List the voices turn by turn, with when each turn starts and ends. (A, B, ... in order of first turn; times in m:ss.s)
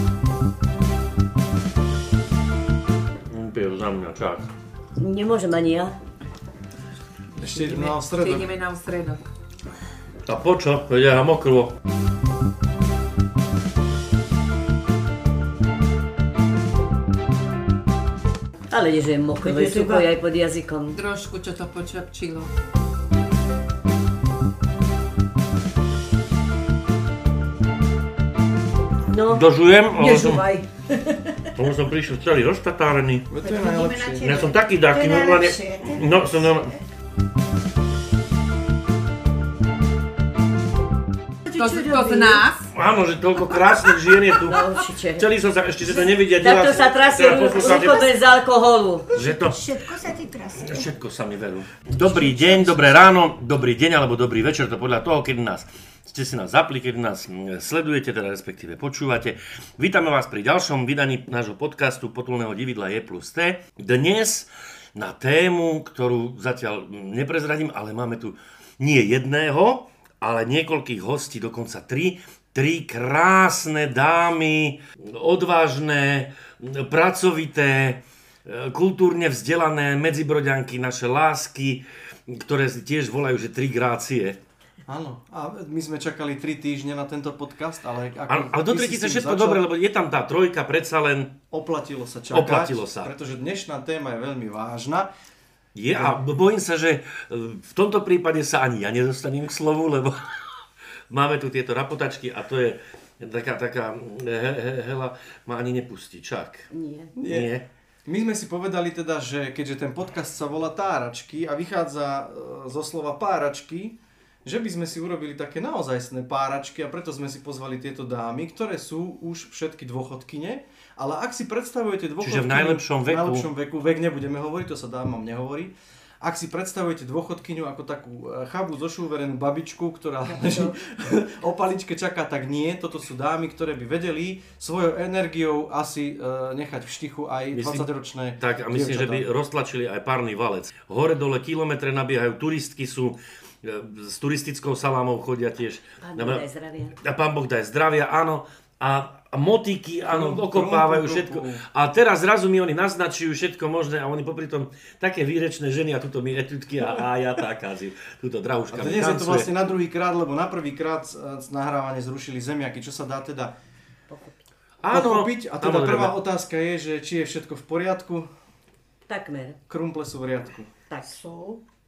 0:03.3-0:04.5 A
0:05.0-0:06.0 B
0:07.4-0:08.6 C
0:07.6-0:09.2 D
0:10.3-0:11.8 A
0:18.7-0:21.0 B
0:19.5-0:20.0 E
0:20.9-0:22.5 D
0:29.1-0:29.5 B
0:29.3-0:30.5 A
0:30.0-0:31.5 E
0:31.6-0:33.3 A
0:33.3-0:34.3 C
0:33.4-0:36.8 E
0:34.2-0:36.7 A
0:41.4-0:42.5 E
0:41.5-0:42.7 D
0:42.7-0:48.1 A
0:43.6-0:44.5 E
0:44.4-0:45.3 B
0:46.3-0:49.1 B
0:47.4-0:48.1 E
0:49.1-0:50.9 E
0:49.2-0:49.9 A
0:50.6-1:24.4 A
0:52.0-0:52.8 E
1:24.9-1:29.6 C
1:28.3-1:31.4 A
1:31.5-1:35.1 C
1:32.3-1:33.1 A
1:35.8-1:46.7 A
1:46.7-1:47.1 B
1:47.2-1:47.5 C
1:47.2-1:47.7 A
1:48.1-2:19.3 C
2:02.2-2:03.5 A
2:17.5-2:17.9 A
2:18.4-2:26.5 A
2:26.0-2:27.0 B
2:27.0-2:39.5 A
2:30.0-2:31.6 C
2:38.7-2:43.5 C
2:44.1-2:44.4 B
2:44.8-2:46.2 A
2:44.9-2:48.3 C
2:49.1-2:49.6 B
2:49.7-2:50.7 C
2:50.9-2:51.2 B
2:51.1-2:51.6 E